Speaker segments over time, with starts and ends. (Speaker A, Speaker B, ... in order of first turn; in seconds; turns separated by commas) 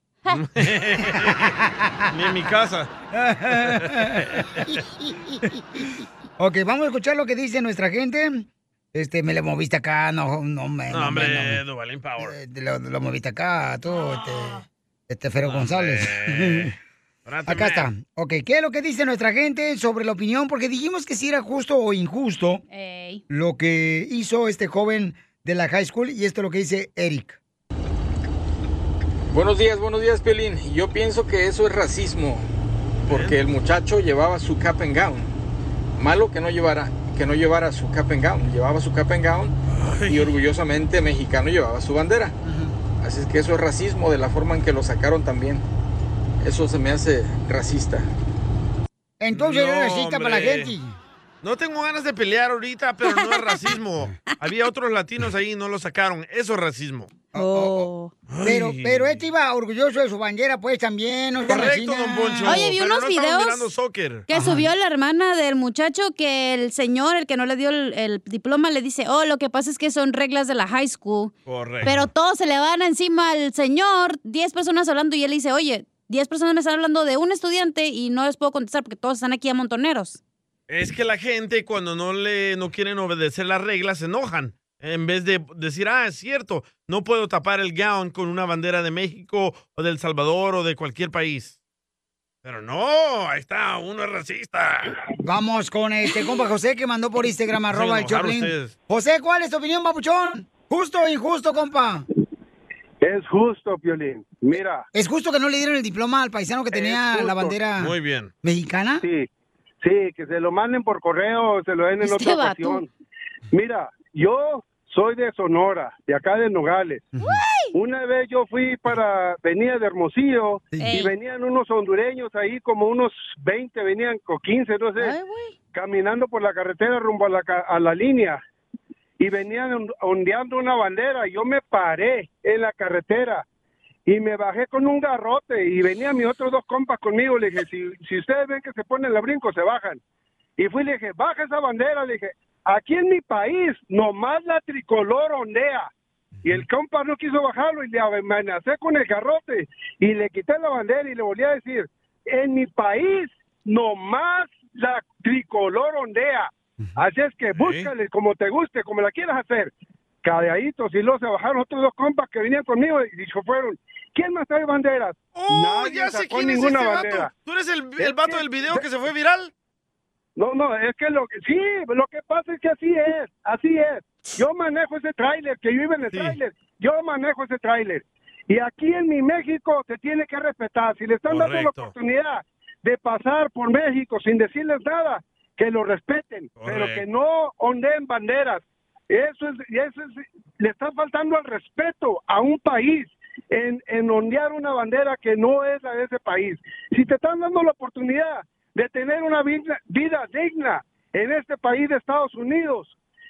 Speaker A: 0.3-1.6, Speaker B: 1.1-2.0, Speaker A: 2.1-2.9, Speaker B: 3.1-5.9, Speaker A: 3.5-4.8, Speaker B: 6.4-11.6, Speaker A: 10.9-12.3, Speaker B: 12.2-16.7, Speaker A: 15.4-16.7, Speaker A: 17.3-17.9, Speaker B: 17.5-22.6, Speaker C: 22.7-23.2, Speaker B: 23.3-27.4, Speaker D: 29.3-32.5, Speaker A: 33.1-33.4, Speaker D: 33.1-35.4, Speaker D: 36.0-39.5, Speaker A: 39.7-40.3, Speaker D: 40.1-42.4, Speaker B: 42.4-42.8, Speaker D: 43.0-45.6, Speaker D: 46.4-48.1, Speaker B: 49.2-51.0, Speaker A: 49.3-50.7, Speaker A: 51.4-57.1, Speaker C: 53.0-53.5, Speaker B: 57.3-57.9, Speaker C: 57.4-58.1, Speaker A: 58.3-59.2, Speaker B: 58.4-62.7, Speaker A: 61.5-64.3, Speaker C: 62.4-63.7, Speaker C: 64.3-80.2, Speaker B: 64.3-64.7, Speaker A: 71.5-72.1, Speaker A: 80.7-91.5, Speaker A: 92.4-95.0, Speaker B: 95.2-102.0, Speaker A: 97.7-98.7, Speaker E: 103.0-104.9, Speaker B: 104.9-109.0, Speaker E: 106.7-107.6, Speaker A: 107.8-108.3, Speaker E: 109.0-109.3, Speaker E: 109.8-112.9, Speaker C: 112.0-112.8, Speaker E: 113.5-117.0, Speaker C: 117.2-117.8, Speaker E: 117.7-125.2, Speaker B: 120.7-121.1, Speaker C: 120.8-121.1, Speaker C: 125.0-125.5, Speaker E: 125.7-128.4, Speaker E: 129.2-133.4, Speaker E: 134.1-140.0, Speaker E: 140.6-145.9, Speaker E: 146.4-159.7, Speaker A: 157.6-157.9, Speaker E: 160.2-167.3, Speaker A: 165.3-169.5, Speaker E: 168.0-168.8, Speaker E: 170.4-202.9, Speaker A: 176.0-176.4, Speaker A: 181.3-181.9, Speaker A: 186.6-187.1